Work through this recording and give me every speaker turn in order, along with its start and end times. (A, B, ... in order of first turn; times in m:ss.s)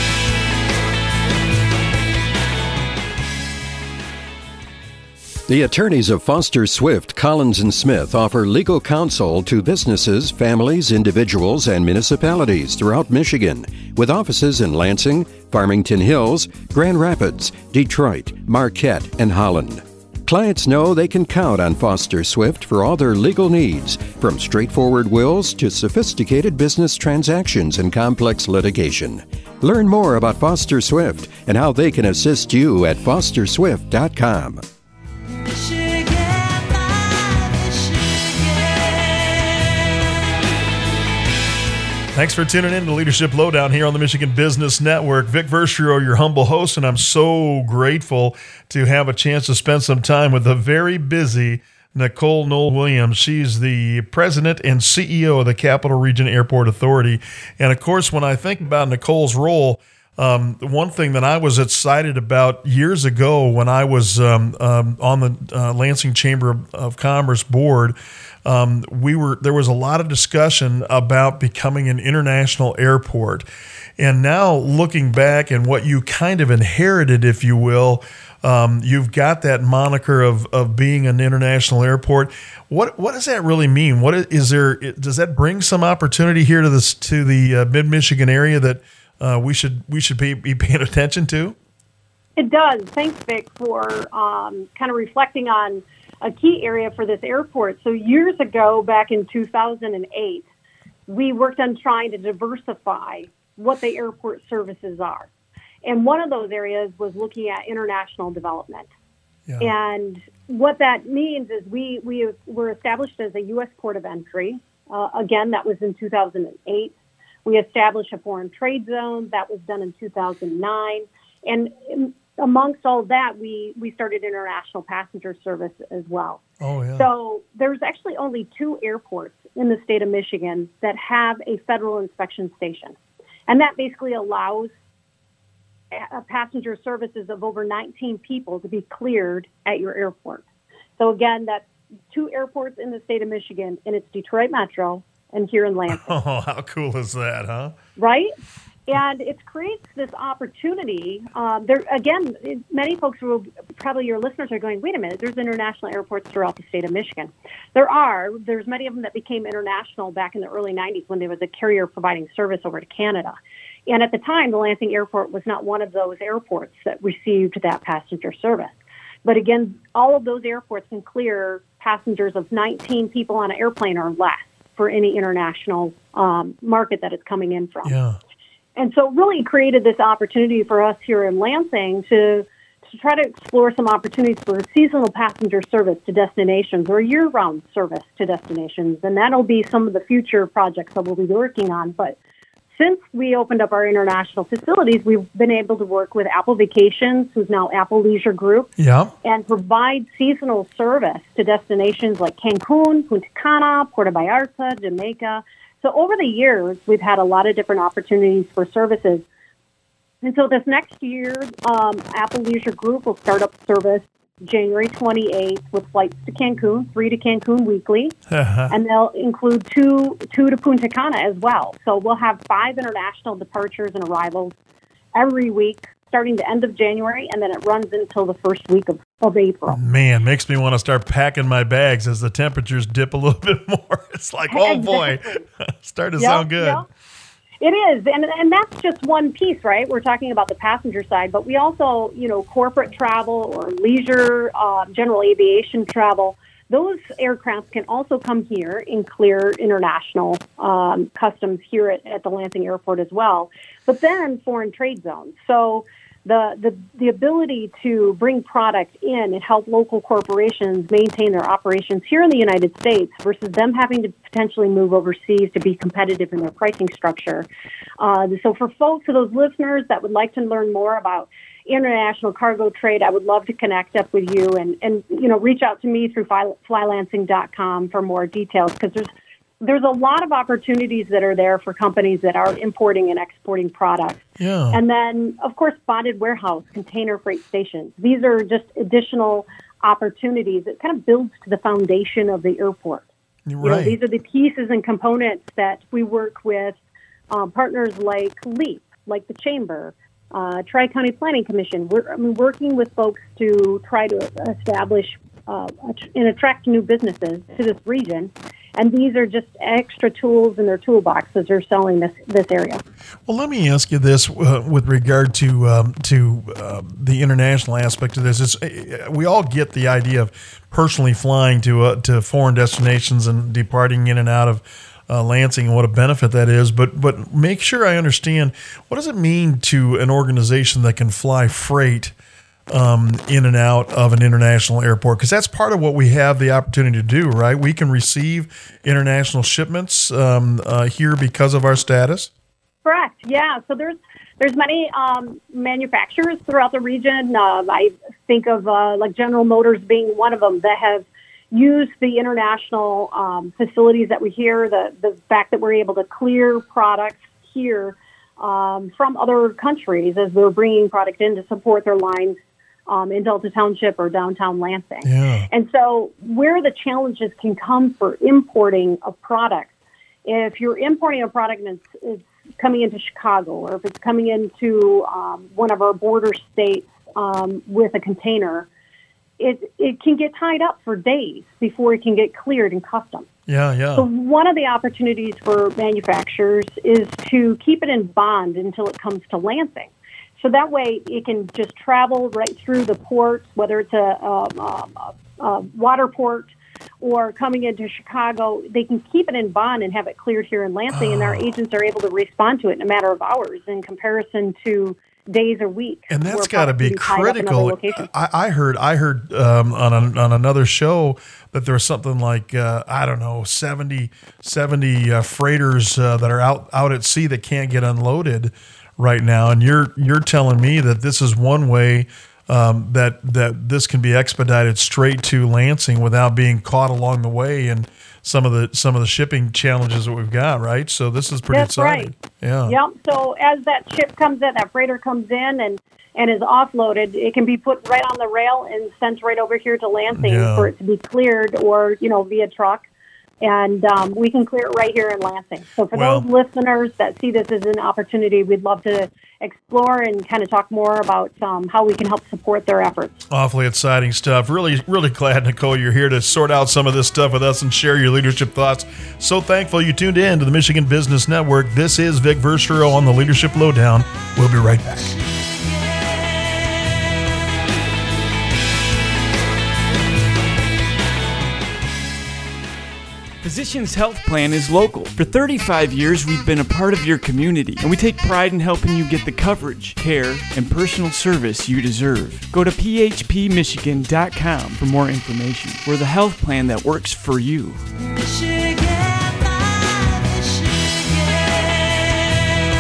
0:05.5-0:34.6 A
0:42.1-1:13.5 B
1:14.0-1:31.6 B
1:32.4-1:40.4 C
1:41.1-1:45.3 C
1:45.8-1:48.9 C
1:49.6-1:56.9 C
1:57.4-2:06.4 C
2:06.6-2:07.1 B
2:07.0-2:13.0 C
2:13.5-2:14.7 C
2:15.9-2:20.4 C
2:21.0-2:26.1 C
2:25.9-2:27.8 B
2:28.0-2:28.3 C
2:28.9-2:43.4 C
2:43.9-2:58.0 C
2:57.8-2:58.2 B
2:58.8-3:12.2 C
3:12.7-3:18.7 C
3:18.8-3:19.1 B
3:19.2-3:29.2 C
3:30.2-3:38.2 C
3:38.3-3:38.7 B
3:38.7-3:44.5 C
3:45.2-3:49.8 C
3:49.7-3:56.8 B
3:54.5-3:55.4 C
3:56.2-3:56.9 C
3:57.6-4:27.5 C
4:28.0-4:39.1 C
4:39.6-4:44.2 C
4:44.4-4:44.8 B
4:44.7-4:53.1 C
4:53.5-4:54.0 B
4:53.6-4:56.8 C
4:57.3-5:12.8 C
5:13.3-5:32.1 B
5:32.7-5:42.3 B
5:42.8-6:02.4 C
6:02.9-6:09.7 C
6:05.0-6:05.5 B
6:10.3-6:18.7 C
6:19.4-6:23.3 C
6:23.5-6:24.1 B
6:24.0-6:36.5 C
6:37.0-6:48.1 C
6:40.9-6:41.5 B
6:46.1-7:12.8 B
7:11.5-7:12.1 C
7:12.7-7:22.8 C
7:20.1-7:20.7 B
7:23.4-7:33.2 C
7:25.9-7:26.3 B
7:33.3-7:45.2 B
7:53.4-8:07.9 D